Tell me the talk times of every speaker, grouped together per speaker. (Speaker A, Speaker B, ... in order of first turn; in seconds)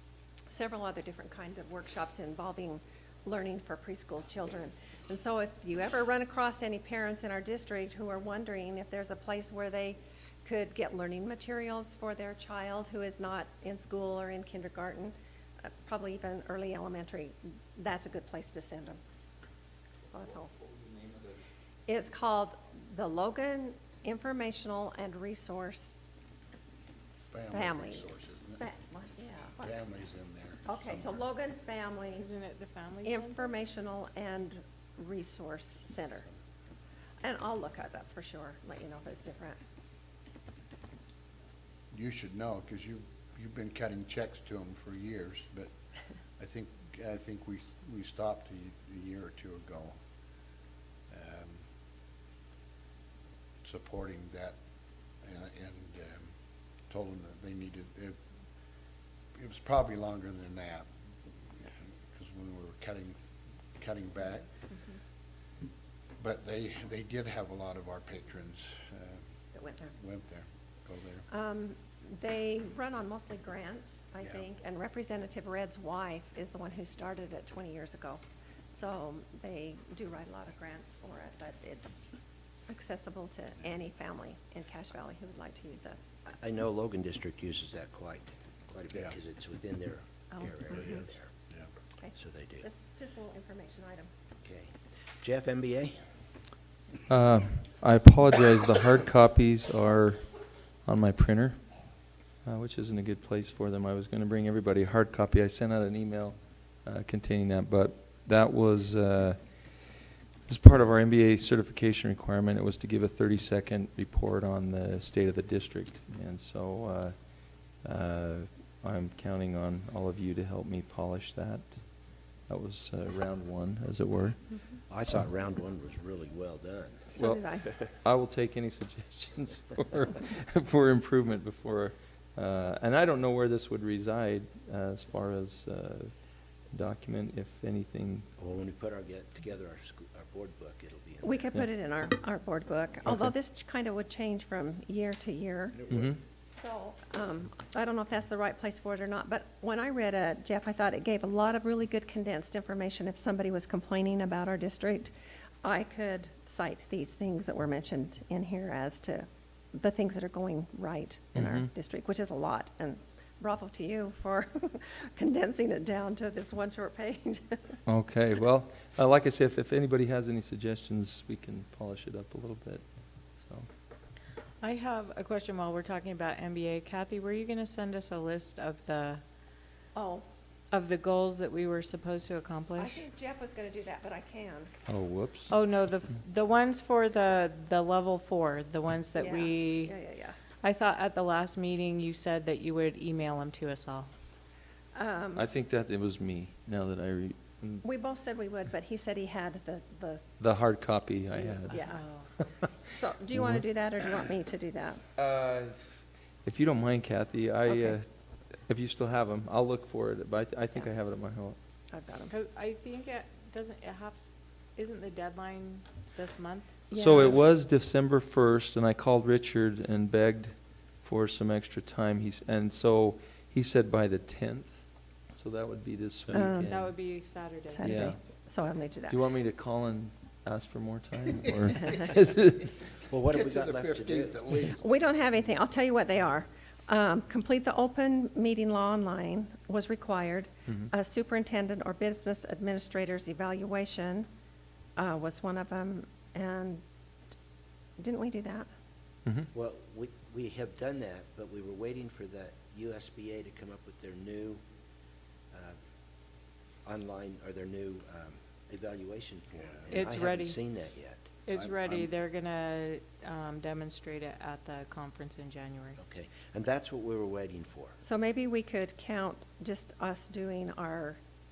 Speaker A: 0.5-19.0, 20.1-20.5, 21.9-26.0, 27.1-29.8, 30.7-32.3, 33.0-36.3, 37.2-39.6, 69.5-69.9, 71.3-78.2, 78.7-82.0, 82.7-86.0, 90.3-91.1, 92.0-94.1, 127.2-127.7, 141.2-145.8, 146.6-155.1, 155.6-167.8, 179.9-180.2, 182.8-184.7, 189.2-190.4, 194.9-195.5, 197.8-200.2, 201.5-202.0, 202.9-205.0, 207.7-207.9, 211.9-212.3, 216.9-217.4, 226.3-226.8, 227.7-229.2, 231.7-232.1, 234.6-244.3, 245.0-246.8, 248.0-248.7, 268.0-271.2
Speaker B: 20.5-21.4, 97.1-100.3, 100.8-101.6, 102.5-125.2, 127.2-136.1, 136.7-138.3, 145.9-146.2, 161.3-161.7, 167.9-173.7, 184.9-185.5, 195.4-197.8, 200.4-201.8, 202.4-202.7, 203.3-203.6, 205.2-205.8, 206.4-208.1, 208.6-211.6, 216.9-224.8, 225.4-226.9, 227.8-228.2, 229.1-232.8
Speaker C: 27.3-28.6, 29.6-31.3, 41.9-45.7, 46.4-50.0, 51.1-51.6, 53.6-54.6, 55.2-56.3, 56.9-58.2, 59.4-60.9, 61.6-63.2, 63.8-64.5, 66.2-69.2, 69.9-71.3, 90.7-91.7, 145.8-146.2, 233.3-234.8, 259.6-260.1, 261.5-262.1
Speaker D: 32.2-33.5, 174.6-179.2, 180.7-183.0, 185.5-189.9, 190.6-194.2, 201.8-202.3, 212.3-216.8, 226.7-228.1, 259.9-260.9, 261.4-266.0
Speaker E: 86.3-91.3, 92.2-92.7, 94.4-96.0, 124.9-127.1, 138.4-141.5, 233.1-234.5, 249.5-254.6, 255.5-255.8, 256.9-261.3, 266.0-268.0